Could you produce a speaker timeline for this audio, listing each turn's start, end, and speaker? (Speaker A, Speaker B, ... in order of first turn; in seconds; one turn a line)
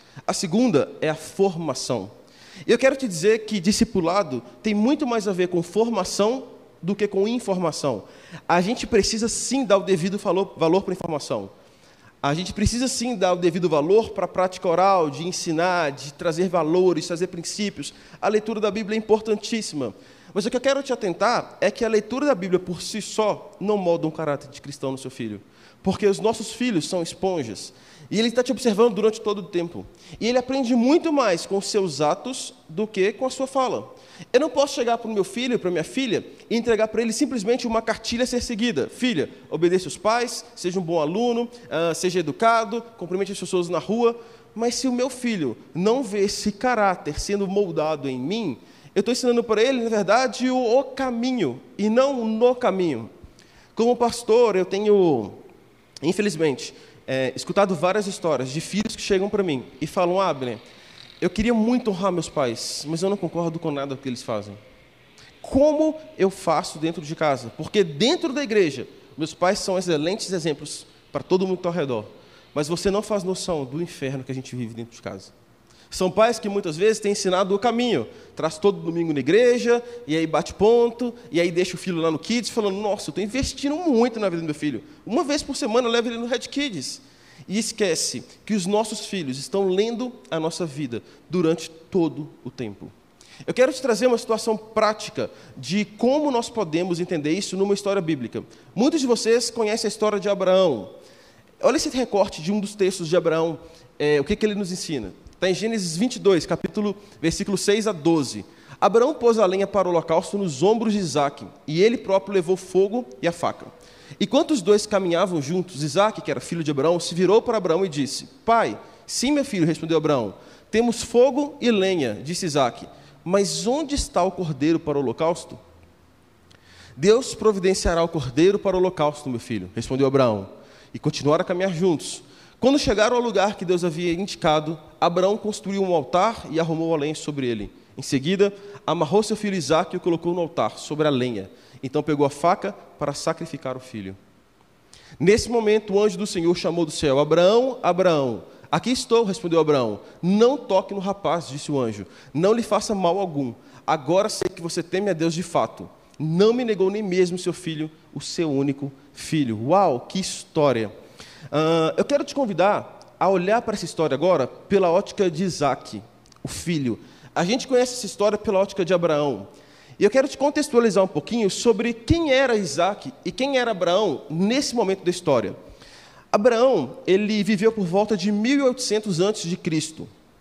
Speaker A: 0.3-2.1
Speaker A: 2.7-11.5
Speaker A: 12.2-53.1
Speaker A: 53.8-55.4
Speaker A: 56.0-60.6
Speaker A: 61.2-64.6
Speaker A: 65.4-75.3
Speaker A: 75.9-92.9
Speaker A: 93.5-100.9
Speaker A: 101.6-125.6
Speaker A: 127.0-144.2
Speaker A: 145.2-160.9
Speaker A: 161.5-175.6
Speaker A: 176.3-180.1